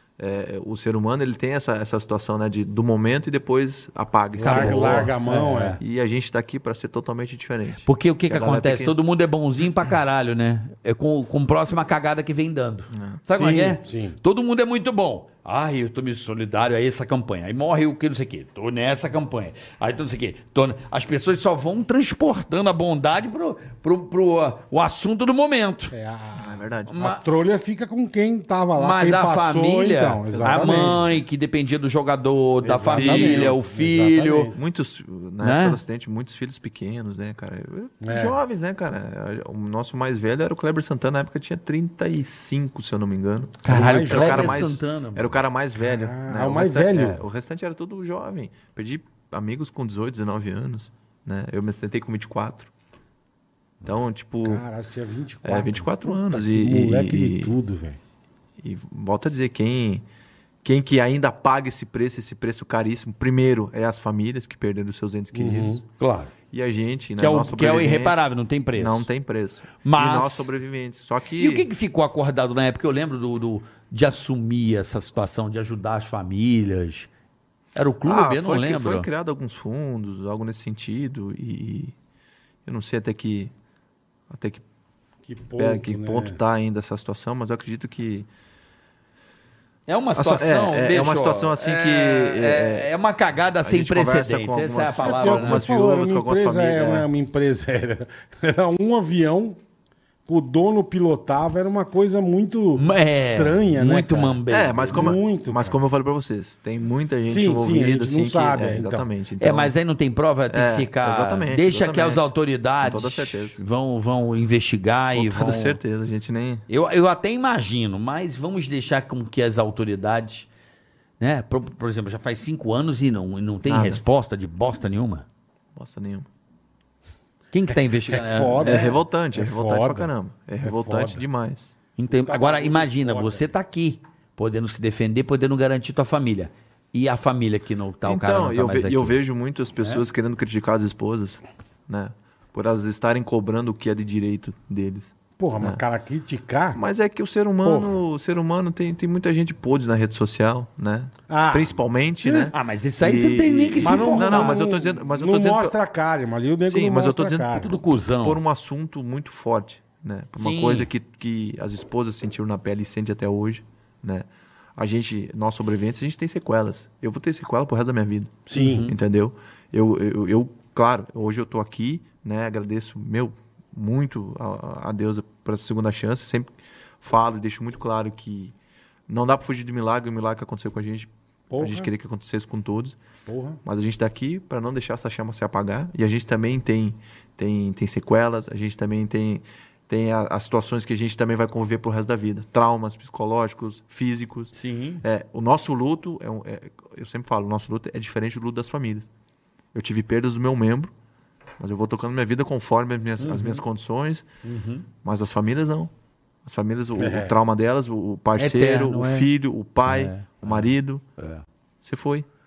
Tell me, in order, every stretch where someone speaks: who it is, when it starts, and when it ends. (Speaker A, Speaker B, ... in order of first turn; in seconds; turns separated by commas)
Speaker A: 0.2-5.1, Speaker B: 4.4-5.8, Speaker C: 4.4-5.8, Speaker A: 5.8-8.9, Speaker C: 7.8-25.9, Speaker A: 12.9-13.2, Speaker B: 13.3-14.2, Speaker B: 25.9-31.0, Speaker A: 26.4-26.9, Speaker C: 26.9-27.2, Speaker C: 28.8-34.5, Speaker A: 30.3-31.2, Speaker B: 32.6-34.6, Speaker A: 32.8-33.6, Speaker A: 34.5-52.7, Speaker C: 35.4-35.8, Speaker B: 38.0-38.4, Speaker C: 43.6-45.4, Speaker B: 43.7-44.6, Speaker B: 45.8-47.2, Speaker A: 53.8-54.6, Speaker B: 54.4-58.0, Speaker A: 55.4-57.5, Speaker A: 58.6-60.0, Speaker A: 60.6-65.8, Speaker B: 65.3-65.8, Speaker C: 66.0-66.3, Speaker A: 66.5-68.2, Speaker C: 67.2-69.1, Speaker A: 68.7-71.7, Speaker C: 69.8-70.5, Speaker C: 71.4-77.1, Speaker C: 77.7-79.1, Speaker A: 78.0-81.9, Speaker A: 82.6-83.5, Speaker A: 84.3-84.6, Speaker B: 85.3-86.4, Speaker A: 85.6-88.3, Speaker C: 89.9-95.6, Speaker A: 90.1-92.9, Speaker A: 93.6-97.1, Speaker B: 95.0-99.6, Speaker B: 100.2-105.8, Speaker C: 102.8-105.1, Speaker A: 104.5-109.7, Speaker B: 107.3-109.0, Speaker C: 109.4-115.8, Speaker A: 110.5-112.3, Speaker A: 112.8-113.6, Speaker A: 115.1-116.6, Speaker C: 116.7-120.5, Speaker C: 121.2-125.2, Speaker A: 123.7-124.0, Speaker A: 125.7-126.3, Speaker C: 127.5-128.9, Speaker B: 128.0-130.1, Speaker A: 128.6-131.7, Speaker B: 130.6-131.2, Speaker C: 132.0-139.2, Speaker B: 132.1-133.4, Speaker A: 138.0-145.8, Speaker B: 145.4-146.8, Speaker A: 146.7-155.7, Speaker B: 147.6-148.0, Speaker B: 151.3-152.5, Speaker C: 152.5-154.6, Speaker B: 153.8-157.7, Speaker A: 156.6-178.5, Speaker C: 157.6-158.4, Speaker C: 160.4-160.9, Speaker B: 168.5-168.9, Speaker C: 168.5-168.9, Speaker A: 179.1-183.0, Speaker B: 181.5-181.9, Speaker B: 183.3-183.6, Speaker A: 183.6-199.1, Speaker C: 194.5-195.0, Speaker A: 199.7-200.9, Speaker A: 201.6-204.3, Speaker B: 203.2-203.6, Speaker C: 204.4-204.8, Speaker A: 205.0-205.9, Speaker A: 206.4-211.0, Speaker B: 206.9-207.3, Speaker C: 208.3-209.3, Speaker C: 209.8-211.4, Speaker A: 211.8-212.2